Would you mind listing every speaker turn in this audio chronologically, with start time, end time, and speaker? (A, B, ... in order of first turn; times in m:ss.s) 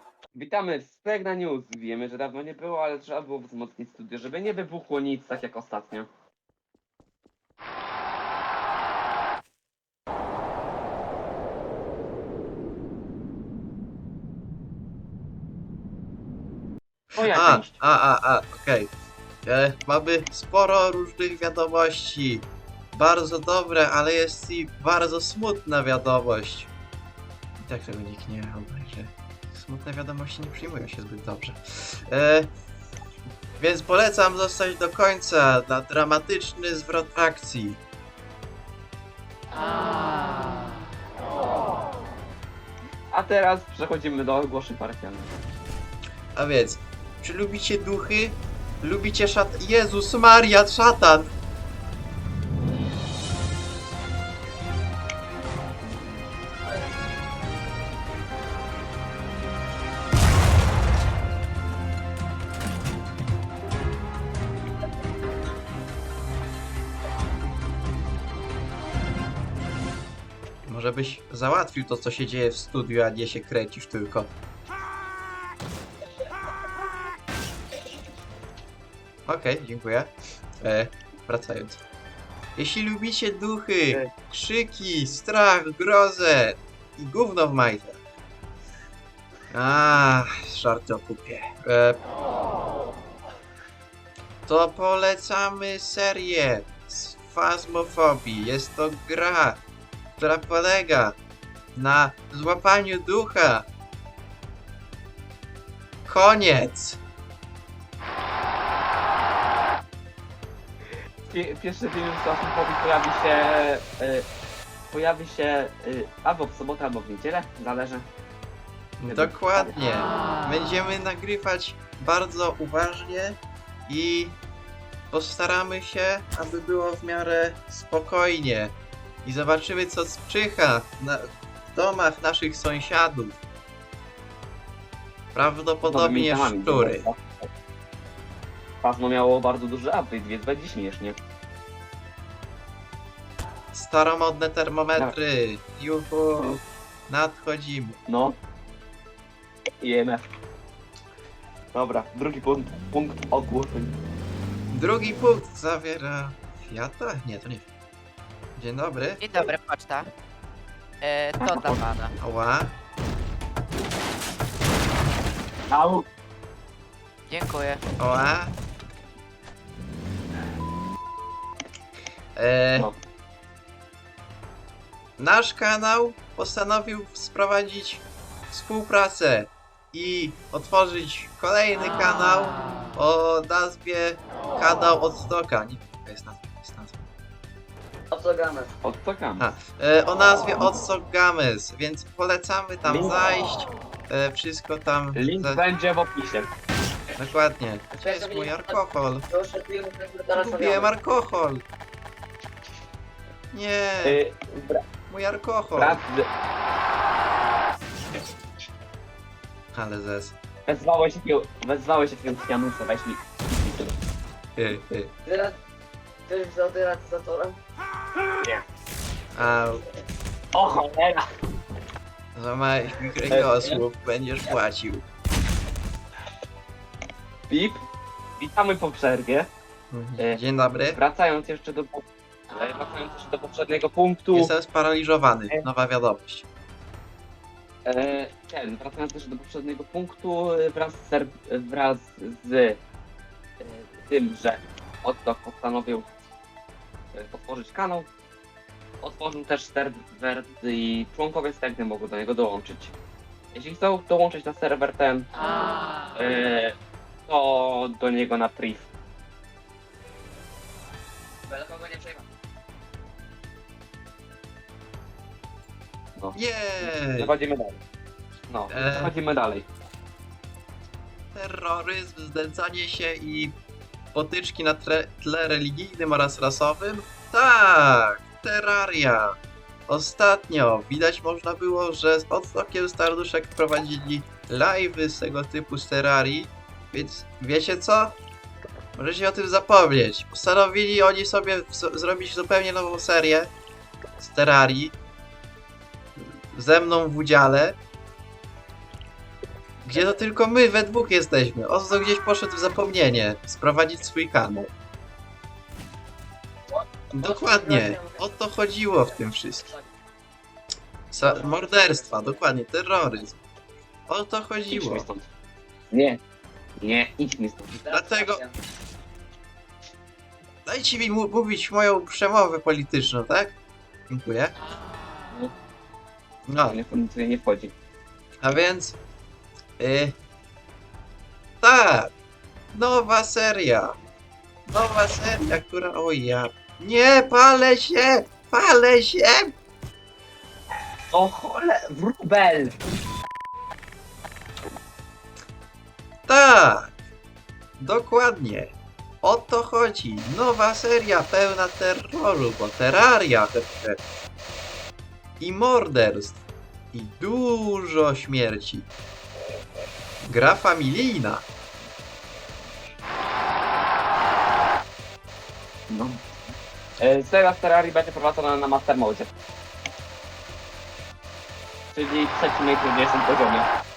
0:00.3-0:06.1 A
0:17.2-0:17.8 A
0:17.2-0:18.9 B
0:19.4-0:26.7 B
0:27.6-0:32.5 B
0:33.6-0:37.8 B
0:43.1-0:45.3 A
0:46.4-0:51.3 B
1:10.6-1:14.3 B
1:19.2-1:20.1 B
1:20.6-1:21.8 B
1:22.6-1:28.0 B
1:29.5-1:32.0 B
1:34.5-1:39.6 B
1:40.2-1:41.2 B
1:41.7-1:43.7 B
1:46.0-1:47.0 B
1:51.3-1:54.2 A
1:54.9-1:58.0 A
1:59.0-2:04.4 B
1:59.1-1:59.8 A
2:05.1-2:08.7 B
2:09.2-2:13.4 B
2:15.3-2:17.1 B
2:15.8-2:17.5 A
2:18.8-2:21.2 A
2:23.7-2:28.0 B
2:28.1-2:28.4 A
2:29.8-2:30.2 A
2:31.7-2:34.0 A
2:34.7-2:37.6 B
2:38.6-2:39.2 B
2:39.2-2:40.1 C
2:41.0-2:42.1 C
2:41.4-2:41.8 A
2:42.2-2:42.7 B
2:45.7-2:46.0 A
2:47.3-2:47.8 C
2:48.0-2:48.5 B
2:52.4-2:52.9 B
2:55.2-3:07.0 B
3:08.1-3:08.7 D
3:08.8-3:09.5 A
3:09.4-3:15.6 B
3:12.8-3:13.2 A
3:15.1-3:16.5 A
3:17.2-3:19.3 B
3:17.9-3:18.7 D
3:19.3-3:20.9 D
3:20.3-3:21.6 B
3:23.5-3:24.2 B
3:24.0-3:24.8 A
3:25.1-3:26.0 B
3:25.8-3:26.3 A
3:29.7-3:30.3 B
3:30.7-3:33.9 A
3:34.6-3:35.1 B
3:35.3-3:35.6 D
3:36.3-3:37.6 D
3:39.3-3:39.8 B
3:40.5-3:41.2 A
3:42.3-3:45.0 B
3:43.3-3:43.8 A
3:47.5-3:47.8 A
3:48.4-3:49.5 A
3:49.9-3:51.0 B
3:50.2-3:54.5 A
3:54.3-3:56.4 B
3:57.8-4:02.8 A
4:03.6-4:06.1 A
4:07.1-4:08.1 A
4:09.0-4:13.0 A
4:13.5-4:15.3 A
4:16.1-4:16.7 A
4:17.3-4:18.9 A
4:21.5-4:22.2 A
4:26.2-4:27.8 A
4:26.3-4:27.3 B
4:28.5-4:29.7 A
4:28.7-4:29.1 B
4:31.3-4:33.5 B
4:34.1-4:39.3 B
4:39.9-4:48.2 B
4:49.0-4:53.5 B
4:54.2-4:54.9 B
4:56.2-4:57.8 B
4:59.8-5:04.7 B
5:07.1-5:09.7 B
5:07.2-5:08.2 D
5:11.1-5:13.4 B
5:11.2-5:12.4 D
5:14.1-5:15.0 B
5:14.7-5:15.3 A
5:15.9-5:16.2 A
5:16.8-5:17.8 A
5:17.8-5:18.5 D
5:17.9-5:18.4 B
5:20.6-5:23.5 B
5:24.1-5:24.6 B
5:26.5-5:26.8 B
5:26.6-5:27.7 A
5:28.4-5:29.0 B
5:29.8-5:30.2 B
5:31.6-5:32.1 B
5:32.7-5:33.9 B
5:34.7-5:39.5 B
5:41.1-5:42.8 A
5:46.3-5:46.9 B
5:47.8-5:54.0 B
5:55.4-5:56.4 B
5:56.9-5:58.9 B
6:00.2-6:01.4 B
6:05.9-6:06.2 A
6:07.0-6:09.3 A
6:11.9-6:13.7 A